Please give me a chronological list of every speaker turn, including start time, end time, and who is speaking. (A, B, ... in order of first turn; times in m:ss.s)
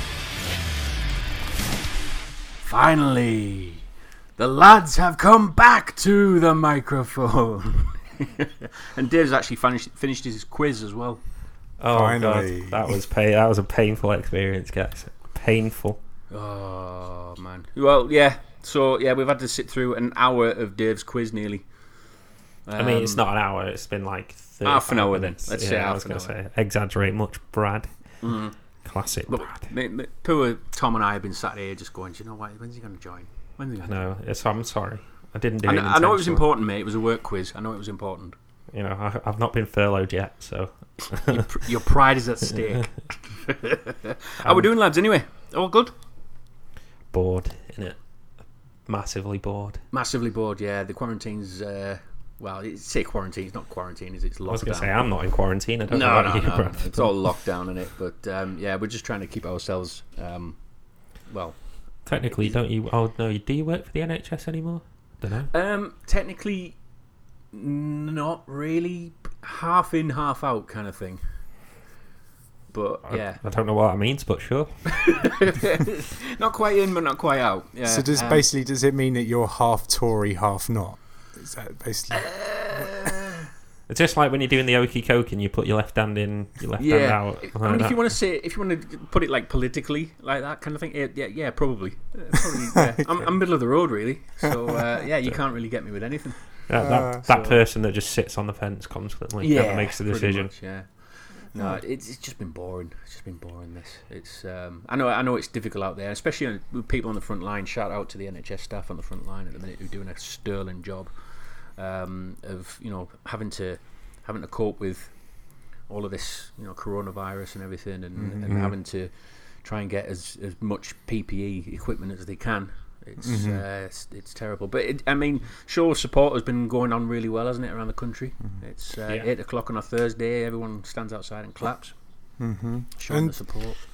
0:02.6-0:03.8 A
0:04.4-0:11.2 A
0:11.8-0:16.0 B
0:11.9-0:13.0 C
0:16.3-0:21.6 A
0:22.7-0:23.2 A
0:22.8-0:27.9 B
0:24.6-0:26.3 A
0:28.2-0:28.6 A
0:28.8-0:29.7 B
0:29.3-0:34.1 A
0:33.9-0:36.5 B
0:35.6-0:38.4 A
0:38.7-0:41.5 B
0:41.2-0:45.9 A
0:47.1-0:48.0 B
0:48.9-0:49.8 B
0:49.9-0:55.0 A
0:54.5-0:57.2 B
0:55.9-1:00.6 A
1:01.3-1:01.6 A
1:02.1-1:05.5 B
1:02.3-1:02.6 A
1:05.5-1:06.8 A
1:07.5-1:11.2 A
1:12.7-1:13.4 A
1:13.1-1:14.7 B
1:14.9-1:18.4 A
1:17.9-1:23.1 C
1:22.1-1:23.5 A
1:23.9-1:28.1 B
1:26.8-1:37.6 A
1:36.7-1:40.5 B
1:36.8-1:37.2 C
1:39.4-1:40.9 A
1:41.5-1:55.1 A
1:55.9-1:59.1 A
1:58.2-1:58.8 C
1:59.6-2:12.0 A
2:03.2-2:03.6 C
2:12.4-2:13.4 C
2:13.0-2:13.8 A